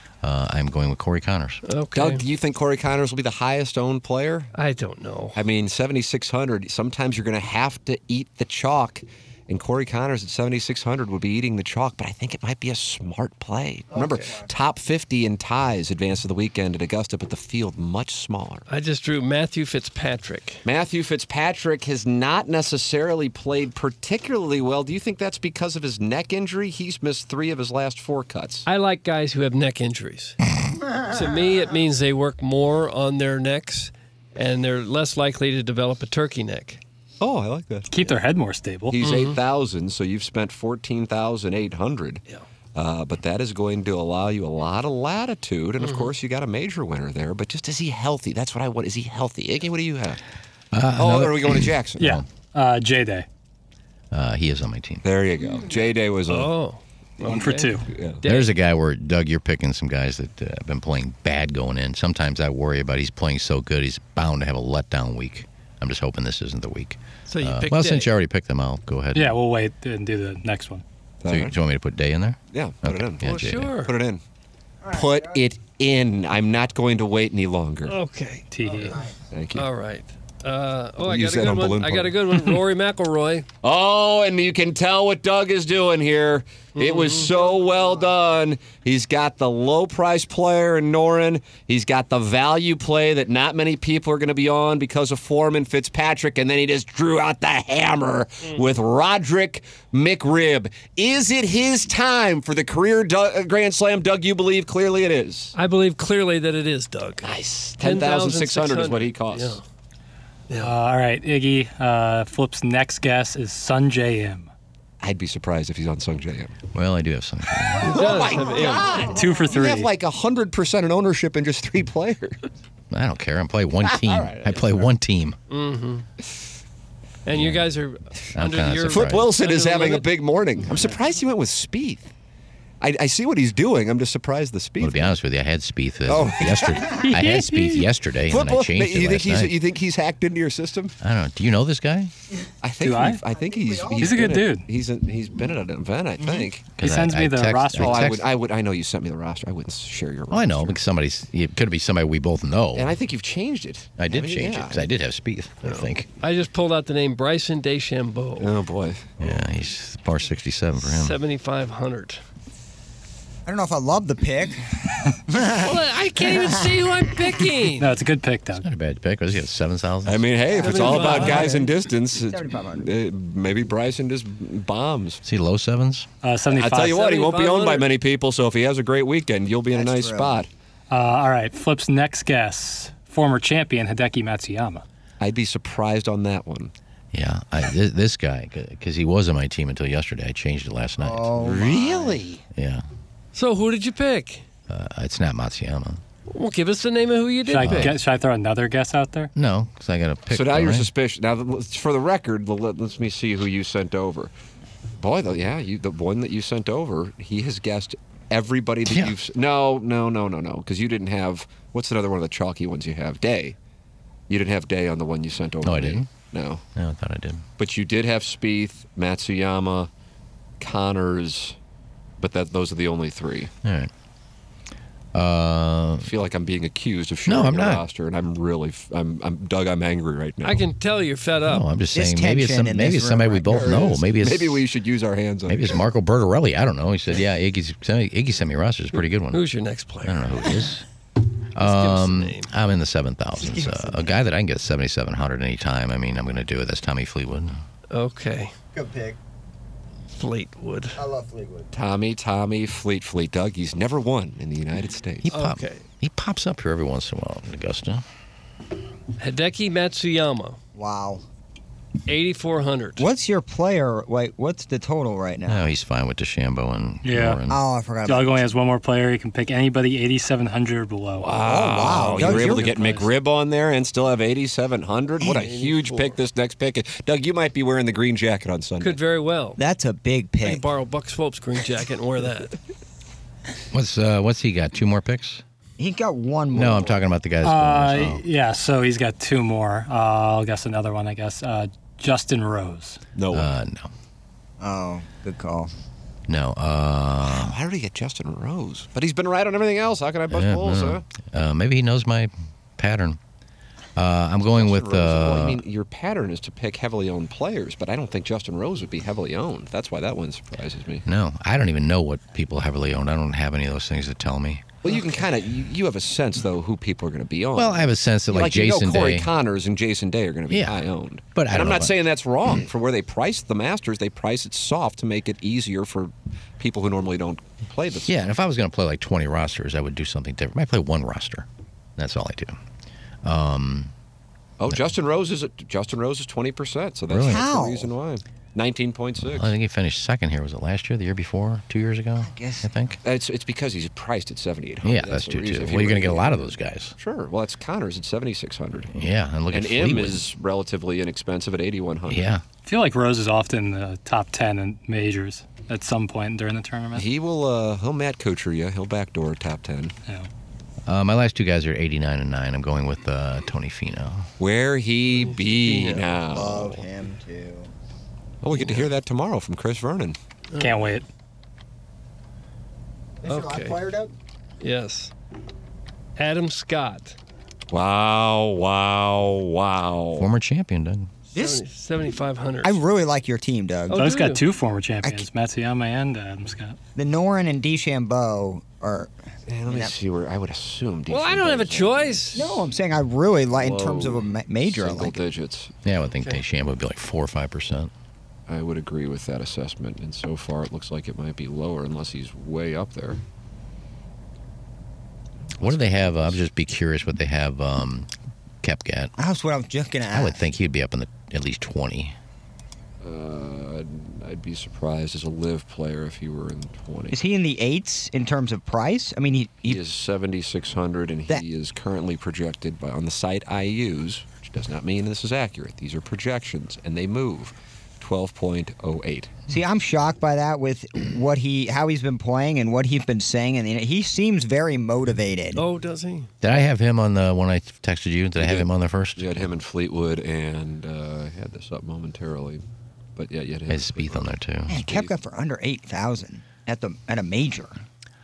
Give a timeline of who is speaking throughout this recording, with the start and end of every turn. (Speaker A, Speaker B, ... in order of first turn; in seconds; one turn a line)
Speaker A: 0.2-1.6
Speaker B: 1.7-2.2
Speaker C: 1.9-4.5
Speaker B: 4.5-5.4
Speaker C: 5.3-18.6
Speaker B: 18.7-20.6
Speaker C: 20.6-28.7
Speaker B: 28.7-30.4
Speaker B: 30.9-36.8
Speaker C: 37.2-38.1
Speaker D: 37.9-39.0
Speaker C: 38.9-42.2
Speaker B: 39.0-39.4
Speaker C: 42.8-50.2
Speaker B: 45.8-46.1
Speaker A: 50.7-52.2
Speaker C: 51.0-52.2
Speaker D: 52.0-53.3
Speaker A: 54.1-55.0
Speaker C: 55.0-56.5
Speaker B: 56.3-58.5
Speaker D: 57.2-57.9
Speaker C: 57.3-58.2
Speaker A: 58.2-69.3
Speaker B: 67.3-68.1
Speaker D: 69.1-70.8
Speaker C: 71.2-71.6
Speaker A: 71.3-73.8
Speaker C: 72.5-74.2
Speaker B: 73.2-73.9
Speaker E: 74.8-75.4
Speaker C: 74.9-78.0
Speaker B: 77.9-79.0
Speaker D: 78.5-79.0
Speaker C: 79.3-79.7
Speaker B: 79.5-83.5
Speaker C: 81.0-82.6
Speaker C: 83.6-105.5
Speaker B: 86.8-87.3
Speaker B: 105.5-109.6
Speaker C: 107.2-109.6
Speaker B: 110.5-110.8
Speaker D: 110.6-114.5
Speaker C: 115.0-116.6
Speaker A: 116.7-118.1
Speaker C: 117.8-122.4
Speaker B: 117.9-119.1
Speaker E: 118.6-119.1
Speaker D: 119.1-119.9
Speaker A: 122.9-125.4
Speaker C: 123.8-124.9
Speaker B: 125.5-126.1
Speaker B: 127.3-130.1
Speaker A: 127.3-127.7
Speaker A: 128.3-129.3
Speaker C: 128.8-132.1
Speaker C: 132.8-135.2
Speaker A: 134.8-139.5
Speaker C: 136.1-141.0
Speaker A: 141.0-142.1
Speaker C: 142.6-146.8
Speaker D: 142.8-143.2
Speaker E: 143.3-144.3
Speaker D: 144.0-144.7
Speaker E: 146.2-146.5
Speaker A: 146.7-148.3
Speaker D: 146.8-148.1
Speaker C: 147.8-150.8
Speaker A: 150.3-152.9
Speaker C: 152.8-154.9
Speaker A: 154.0-156.1
Speaker B: 155.7-158.5
Speaker C: 158.4-159.3
Speaker A: 159.2-161.2
Speaker B: 160.8-162.2
Speaker E: 163.4-166.7
Speaker B: 165.5-167.9
Speaker D: 167.8-168.7
Speaker A: 168.6-170.3
Speaker C: 170.1-175.2
Speaker E: 170.5-172.9
Speaker B: 170.5-171.6
Speaker A: 175.2-176.1
Speaker D: 176.2-177.0
Speaker C: 176.5-180.5
Speaker B: 176.9-177.9
Speaker E: 179.7-180.4
Speaker D: 180.9-184.8
Speaker C: 185.2-186.7
Speaker A: 187.1-191.7
Speaker E: 191.0-192.2
Speaker C: 191.4-192.4
Speaker A: 192.5-192.8
Speaker B: 193.3-194.4
Speaker A: 194.7-196.0
Speaker B: 196.3-197.9
Speaker D: 197.5-199.3
Speaker A: 197.6-198.0
Speaker A: 199.3-200.9
Speaker C: 200.3-204.3
Speaker C: 205.0-213.6
Speaker A: 208.8-209.2
Speaker C: 214.3-216.6
Speaker A: 215.6-216.1
Speaker A: 216.8-217.4
Speaker C: 217.6-219.9
Speaker C: 220.6-221.6
Speaker C: 222.2-223.5
Speaker A: 223.6-223.9
Speaker A: 225.1-226.1
Speaker C: 226.0-230.7
Speaker A: 227.3-227.8
Speaker B: 230.4-231.7
Speaker A: 231.4-234.7
Speaker E: 231.9-234.0
Speaker C: 233.5-235.9
Speaker A: 235.5-239.4
Speaker B: 239.3-240.7
Speaker A: 240.0-240.8
Speaker A: 241.6-247.6
Speaker B: 241.6-242.5
Speaker E: 243.4-244.0
Speaker B: 247.9-248.5
Speaker E: 248.7-249.2
Speaker B: 250.2-251.0
Speaker E: 250.9-251.7
Speaker C: 251.7-255.3
Speaker A: 255.2-258.0
Speaker B: 255.3-255.8
Speaker B: 259.2-260.6
Speaker E: 260.8-261.2
Speaker B: 262.1-263.1
Speaker E: 263.0-265.6
Speaker A: 265.5-267.6
Speaker D: 267.0-267.4
Speaker E: 267.5-268.4
Speaker D: 268.1-271.3
Speaker C: 271.2-279.0
Speaker E: 271.4-272.7
Speaker B: 272.2-273.1
Speaker D: 272.2-272.4
Speaker E: 275.2-275.5
Speaker B: 275.2-276.2
Speaker B: 278.8-279.6
Speaker E: 279.6-280.6
Speaker B: 280.4-282.6
Speaker A: 283.7-285.4
Speaker E: 285.8-287.0
Speaker A: 286.5-288.2
Speaker D: 287.4-293.0
Speaker C: 293.2-293.5
Speaker A: 293.3-293.9
Speaker E: 294.6-295.7
Speaker A: 296.3-297.6
Speaker C: 297.2-301.1
Speaker A: 300.3-303.2
Speaker A: 304.0-305.6
Speaker C: 304.5-311.1
Speaker A: 311.1-314.6
Speaker C: 314.8-328.2
Speaker A: 317.6-319.3
Speaker A: 320.5-321.9
Speaker A: 328.1-331.5
Speaker A: 332.0-332.6
Speaker A: 333.2-333.9
Speaker C: 334.6-339.6
Speaker A: 337.1-337.4
Speaker E: 337.2-337.9
Speaker A: 339.2-343.0
Speaker E: 342.2-342.7
Speaker C: 343.0-352.3
Speaker A: 344.8-346.9
Speaker A: 348.9-350.2
Speaker A: 352.1-352.4
Speaker D: 352.7-357.1
Speaker C: 356.9-359.9
Speaker A: 360.9-364.3
Speaker C: 364.4-366.8
Speaker B: 365.1-366.2
Speaker E: 366.3-367.7
Speaker C: 368.4-370.2
Speaker B: 370.5-370.9
Speaker D: 370.6-371.1
Speaker E: 373.2-374.1
Speaker B: 373.2-373.9
Speaker B: 374.6-375.1
Speaker B: 376.2-377.2
Speaker C: 377.7-380.3
Speaker A: 380.2-381.1
Speaker B: 381.3-382.8
Speaker E: 381.4-381.6
Speaker E: 382.6-384.0
Speaker B: 383.9-384.4
Speaker D: 383.9-386.8
Speaker E: 386.9-389.1
Speaker C: 389.5-392.4
Speaker E: 389.7-389.9
Speaker B: 391.1-392.4
Speaker E: 392.3-395.2
Speaker C: 393.6-395.8
Speaker A: 395.9-397.9
Speaker C: 398.5-403.2
Speaker A: 405.6-408.1
Speaker C: 405.6-406.5
Speaker A: 408.6-409.1
Speaker E: 409.2-410.4
Speaker A: 410.1-412.1
Speaker C: 413.0-417.2
Speaker E: 417.1-419.8
Speaker C: 419.7-429.3
Speaker E: 429.5-435.6
Speaker B: 435.6-436.3
Speaker A: 436.4-439.5
Speaker C: 438.4-442.6
Speaker C: 443.2-445.1
Speaker A: 443.7-444.8
Speaker E: 444.7-447.8